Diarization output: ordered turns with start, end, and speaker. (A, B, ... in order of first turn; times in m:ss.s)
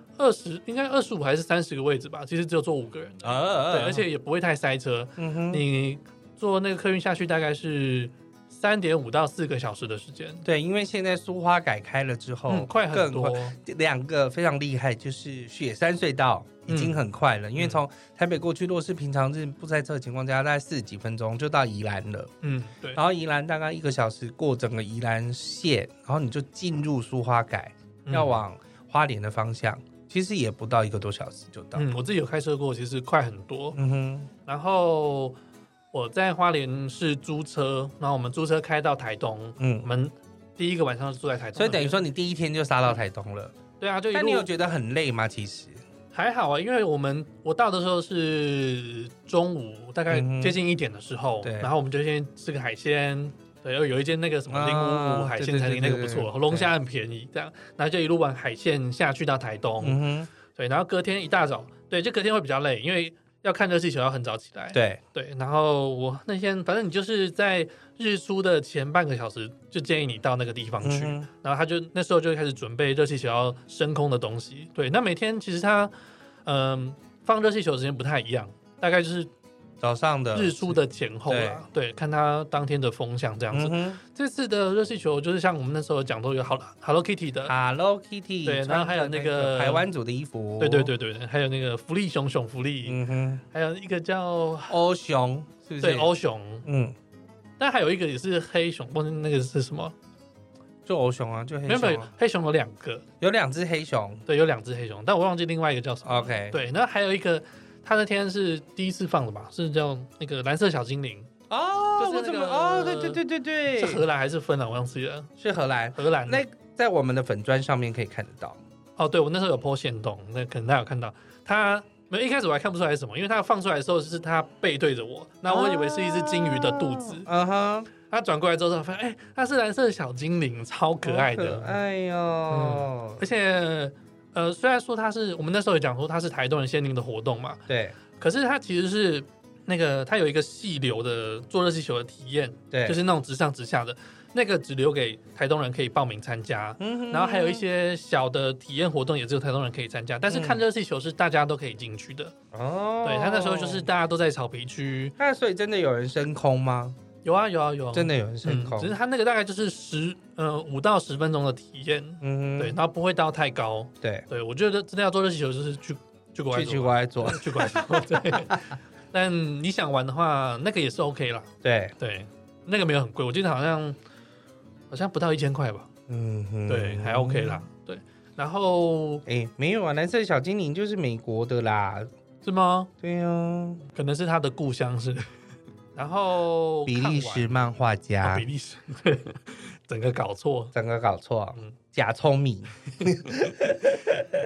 0:00.2-0:10.4 A
0:03.2-0:04.1 B
0:05.2-0:05.6 B
0:10.4-0:22.3 B
0:12.5-0:13.6 A
0:16.7-0:17.0 A
0:22.4-0:23.0 A
0:22.9-0:31.9 B
0:28.1-0:28.4 A
0:31.8-0:33.8 A
0:33.8-0:34.3 B
0:34.4-0:35.4 A
0:35.9-0:42.1 A
0:39.6-0:39.9 B
0:41.6-0:43.6 B
0:43.8-0:44.5 A
0:44.1-0:45.8 B
0:46.1-1:15.9 A
0:50.1-0:50.6 B
0:51.4-0:51.7 B
0:54.5-0:56.7 B
0:59.8-1:00.3 B
1:04.7-1:05.0 B
1:10.8-1:11.3 B
1:16.4-1:19.3 A
1:19.8-1:21.6 B
1:20.3-1:27.5 A
1:23.5-1:24.0 B
1:27.4-1:30.9 B
1:28.4-1:29.9 A
1:30.6-1:33.0 A
1:32.8-1:33.4 B
1:33.5-1:34.8 A
1:34.7-1:36.1 B
1:35.8-1:36.7 A
1:36.7-1:36.9 B
1:37.6-1:39.9 A
1:40.8-1:42.1 B
1:41.7-1:43.0 A
1:43.2-1:44.2 B
1:44.3-1:51.3 A
1:46.0-1:46.6 B
1:51.5-1:54.0 B
1:52.0-1:55.3 A
1:55.4-1:58.6 B
1:55.9-1:56.4 A
1:59.0-2:07.3 A
2:05.4-2:07.9 B
2:08.1-2:11.8 A
2:11.0-2:13.3 B
2:12.5-2:17.6 A
2:17.7-2:18.0 B
2:18.2-2:32.3 A
2:22.7-2:23.0 B
2:26.8-2:27.6 B
2:30.3-2:30.6 B
2:32.5-2:33.9 B
2:33.0-2:35.2 A
2:35.2-2:37.0 B
2:37.2-2:51.5 A
2:37.9-2:39.0 B
2:42.2-2:42.8 B
2:46.5-2:48.6 B
2:51.6-2:51.9 B
2:52.0-2:54.0 A
2:54.9-2:55.9 A
2:56.1-2:57.7 B
2:56.7-2:59.2 A
2:59.3-3:02.1 B
3:02.4-3:02.9 A
3:03.0-3:03.8 B
3:03.9-3:05.3 A
3:05.9-3:10.8 A
3:06.8-3:08.5 B
3:10.7-3:14.2 B